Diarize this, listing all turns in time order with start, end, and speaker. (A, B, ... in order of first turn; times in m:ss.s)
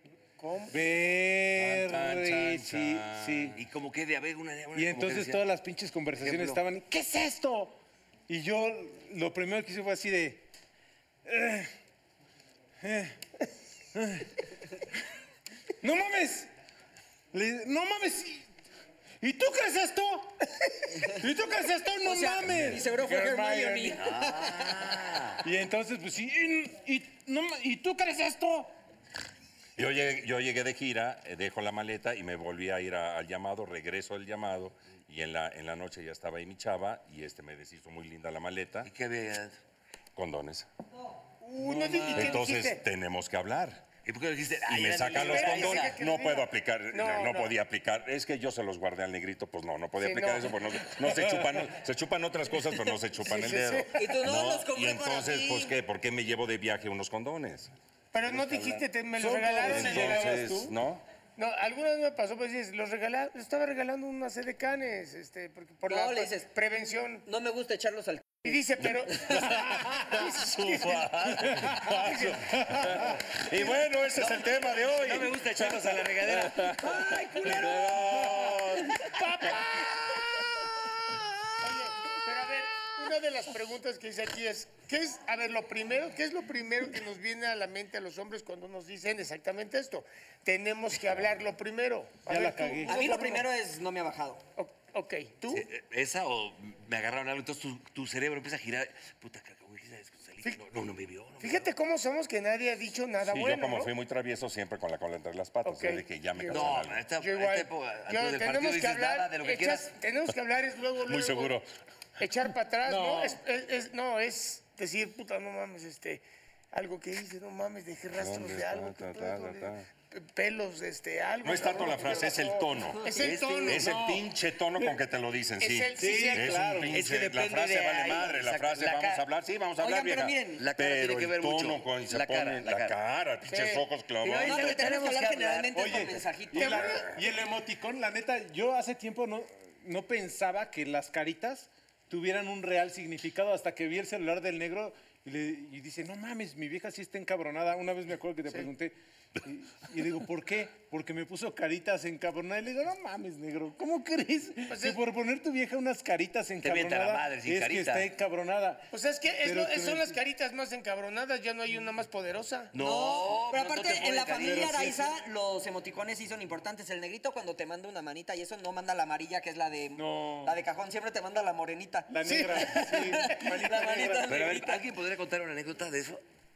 0:00.4-0:00.8 A
0:00.7-0:03.6 B
0:01.6-0:03.6 C
0:03.6-0:05.4 D
0:04.7-0:07.8 B
0:06.2-0:06.6 D
0:08.3-0:10.4 B
0:11.2-0:11.7 B
0:12.8-0:13.2 B
0:13.9-0:14.3 B
0:15.8-0:16.5 B
0:17.3-0:18.5 B
0:19.2-0:24.2 B
0:22.0-0:25.0 E
0:22.4-0:22.8 C
0:24.0-0:25.4 D
0:25.4-0:28.7 B
0:29.8-0:38.9 C
0:38.8-0:39.6 D
0:40.2-0:40.7 C
0:41.4-0:42.8 A
0:41.6-0:42.4 D
0:42.1-0:43.9 C
0:44.0-0:46.0 D
0:44.7-0:57.7 C
0:45.2-0:47.5 A
0:50.0-0:50.6 A
0:53.2-0:54.0 A
0:53.9-0:55.7 E
0:58.1-1:00.8 A
0:58.3-0:58.8 C
0:59.1-1:00.5 B
0:59.6-1:01.0 C
1:01.4-1:07.2 A
1:05.9-1:06.5 E
1:07.3-1:08.6 E
1:08.4-1:12.4 A
1:09.1-1:19.0 C
1:11.5-1:12.1 B
1:12.7-1:13.0 B
1:13.6-1:13.8 A
1:14.2-1:17.9 D
1:19.1-1:20.9 A
1:21.6-1:33.5 A
1:32.3-1:33.0 B
1:32.9-1:34.4 E
1:34.6-1:35.7 A
1:35.5-1:41.7 D
1:41.4-1:43.9 A
1:43.2-1:47.0 C
1:45.6-1:51.6 A
1:46.5-1:49.9 D
1:51.1-1:51.7 C
1:52.2-2:04.3 A
1:52.8-1:53.4 B
1:58.2-1:59.9 C
2:01.4-2:03.0 C
2:03.0-2:03.3 E
2:03.1-2:04.0 D
2:03.6-2:14.8 C
2:05.6-2:06.6 A
2:06.0-2:07.0 B
2:06.9-2:09.2 D
2:09.8-2:10.6 E
2:10.6-2:13.0 D
2:13.5-2:13.8 A
2:14.2-2:16.1 D
2:14.2-2:17.0 E
2:15.8-2:38.9 B
2:16.6-2:17.1 A
2:16.7-2:17.0 C
2:34.7-2:35.0 A
2:36.6-2:38.1 D
2:38.9-2:42.7 A
2:39.4-2:40.2 B
2:42.7-2:45.1 D
2:42.8-2:54.8 E
2:50.0-2:50.6 B
2:52.1-2:54.5 B
2:52.3-2:52.9 A
2:54.3-2:56.2 D